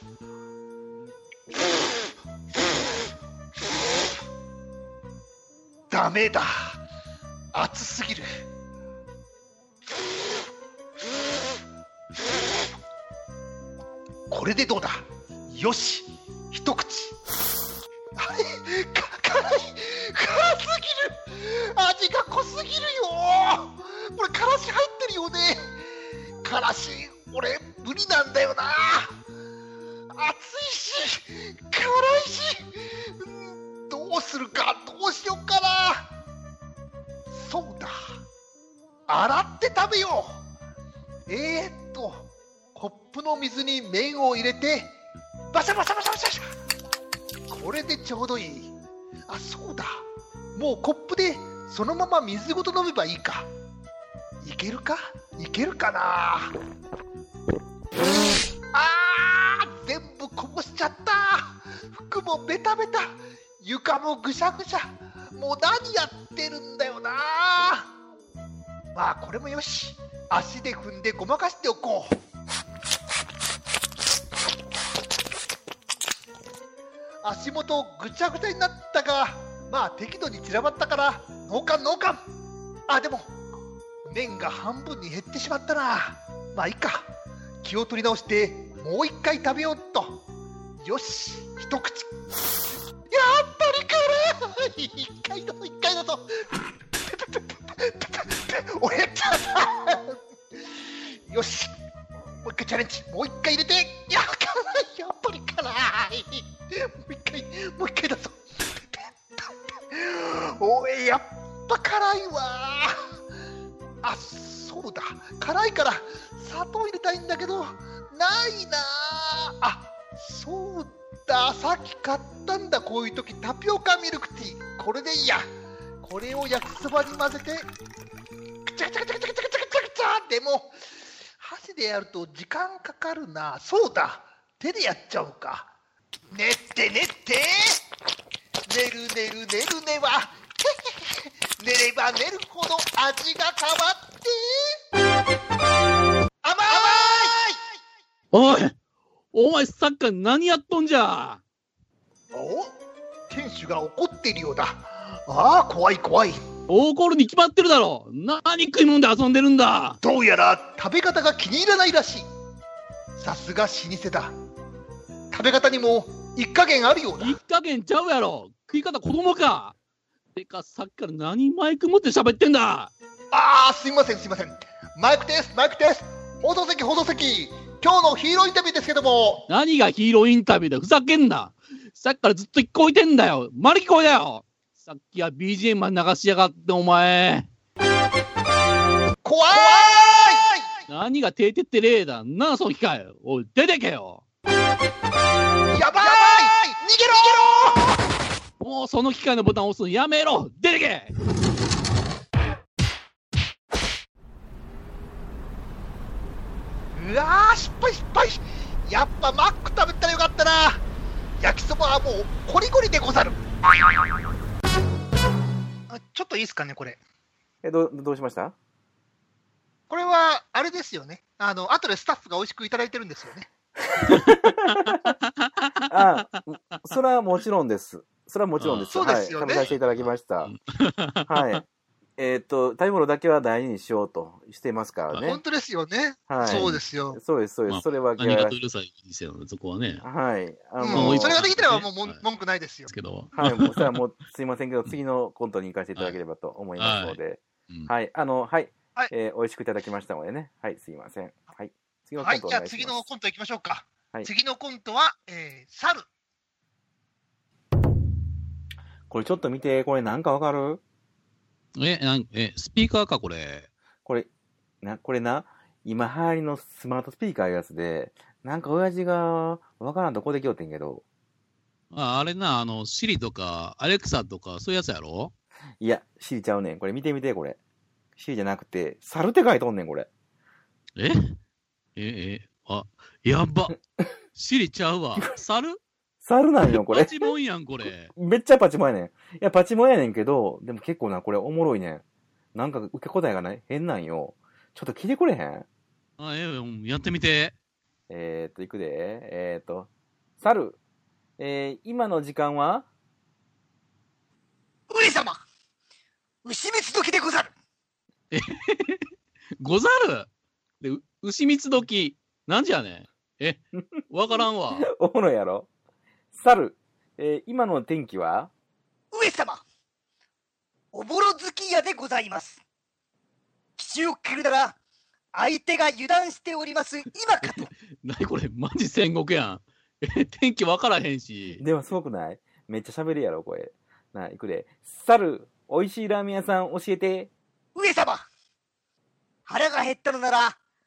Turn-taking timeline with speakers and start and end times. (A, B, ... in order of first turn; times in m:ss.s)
0:05.9-0:06.8 A
0:07.5-0:08.2 A
0:14.3-0:17.2 A
0:18.1-0:25.8 A
0:26.4-0:29.1 A
0:30.1-0:36.1 A
0:37.3-0:37.9 A
0:39.1-0:40.4 A
0:41.3-0:44.9 A
0:45.5-0:46.4 A
0:47.5-0:48.7 A
0:49.3-0:50.0 A
0:50.5-0:53.5 A
0:54.4-0:56.5 A
0:58.7-1:07.9 A
1:08.9-1:12.1 A
1:17.2-1:22.2 A
1:22.9-1:23.3 A
1:24.0-1:27.1 A
1:27.6-1:30.2 A
1:30.8-1:32.1 A
1:33.1-1:36.4 A
1:37.0-1:40.2 A
1:41.2-1:41.7 A
1:42.4-1:48.4 A
1:48.9-1:53.0 A
1:54.0-2:05.5 A
2:06.0-2:07.7 A
2:08.6-2:10.8 A
2:11.4-2:15.7 A
2:16.3-2:17.8 A
2:18.7-2:24.7 A
2:26.4-2:27.6 A
2:28.3-2:28.7 B
2:29.3-2:31.4 B
2:32.3-2:32.7 A
2:33.3-2:36.4 A
2:36.7-2:40.0 B
2:40.0-2:42.3 A
2:43.1-2:44.3 A
2:45.3-2:47.4 A
2:47.2-2:49.7 B
2:50.3-2:52.9 B
2:53.3-2:59.5 A
2:59.5-3:07.5 B
3:09.2-3:10.7 A
3:10.9-3:14.2 B
3:15.7-3:18.0 A
3:18.6-3:21.1 B
3:26.9-3:30.8 A
3:31.4-3:33.4 A
3:35.9-3:37.0 A
3:37.6-3:38.6 C
3:39.9-3:43.5 A
3:44.0-3:45.0 C
3:45.2-3:45.7 B
3:45.9-3:50.5 C
3:48.6-3:51.6 B
3:48.9-3:49.7 A
3:51.3-3:51.6 C
3:52.2-3:55.4 C
3:55.1-3:55.4 B
3:55.2-3:57.2 A
3:56.3-3:58.6 C
3:56.4-3:56.7 B
3:57.7-4:00.0 B
4:00.0-4:01.4 C
4:00.8-4:02.9 A
4:00.9-4:02.2 B
4:02.9-4:04.0 B
4:03.3-4:13.0 C
4:06.8-4:07.9 B
4:12.2-4:16.0 A
4:19.1-4:20.8 C
4:21.8-4:23.7 B
4:24.0-4:24.3 C
4:24.8-4:31.0 C
4:31.9-4:35.3 B
4:35.8-4:37.6 C
4:38.2-4:40.1 C
4:42.0-4:43.8 B
4:44.3-4:45.8 B
4:46.2-4:47.3 C
4:46.7-4:48.1 B
4:47.8-4:52.0 C
4:52.5-4:55.6 C
4:56.2-4:57.5 B
4:58.1-5:00.8 C
5:01.4-5:02.9 C
5:04.9-5:05.4 D
5:06.4-5:07.5 D
5:08.3-5:09.0 B
5:09.6-5:10.3 B
5:10.8-5:14.9 B
5:14.7-5:15.7 C
5:16.3-5:18.5 C
5:19.1-5:19.6 D
5:20.9-5:22.6 D
5:23.8-5:24.8 D
5:25.3-5:27.7 D
5:27.4-5:31.6 B
5:31.6-5:37.3 C
5:37.7-5:38.2 D
5:39.5-5:40.6 D